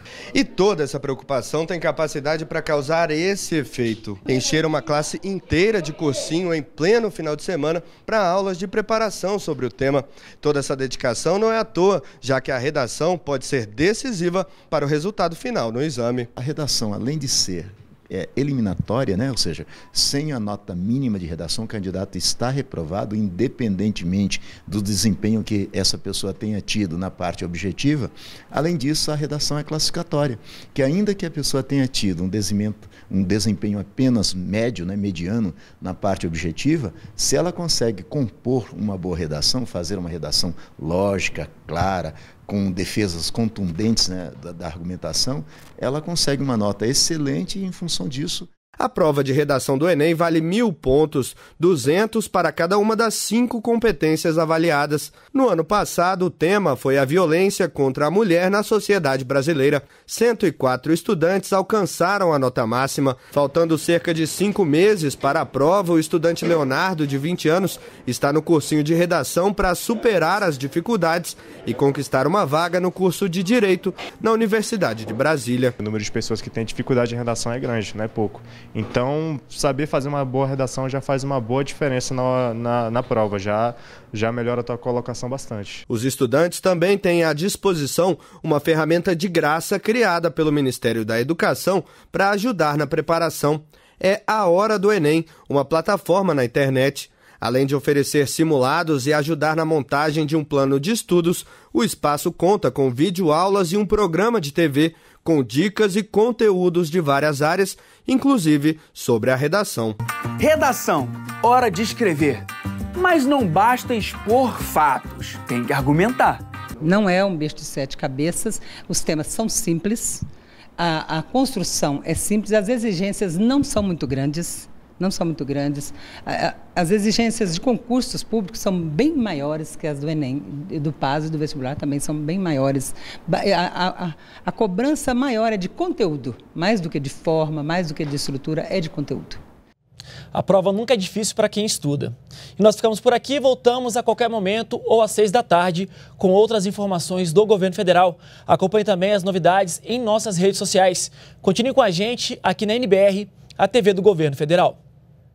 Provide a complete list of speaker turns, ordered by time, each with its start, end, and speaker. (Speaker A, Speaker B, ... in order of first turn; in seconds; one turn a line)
Speaker A: 0.3-16.3
Speaker B: 16.4-48.4
Speaker A: 48.8-75.8
Speaker C: 75.8-85.8
Speaker A: 85.9-110.0
Speaker D: 110.4-116.4
Speaker E: 116.8-120.2
Speaker E: 120.8-139.4
Speaker F: 140.3-154.8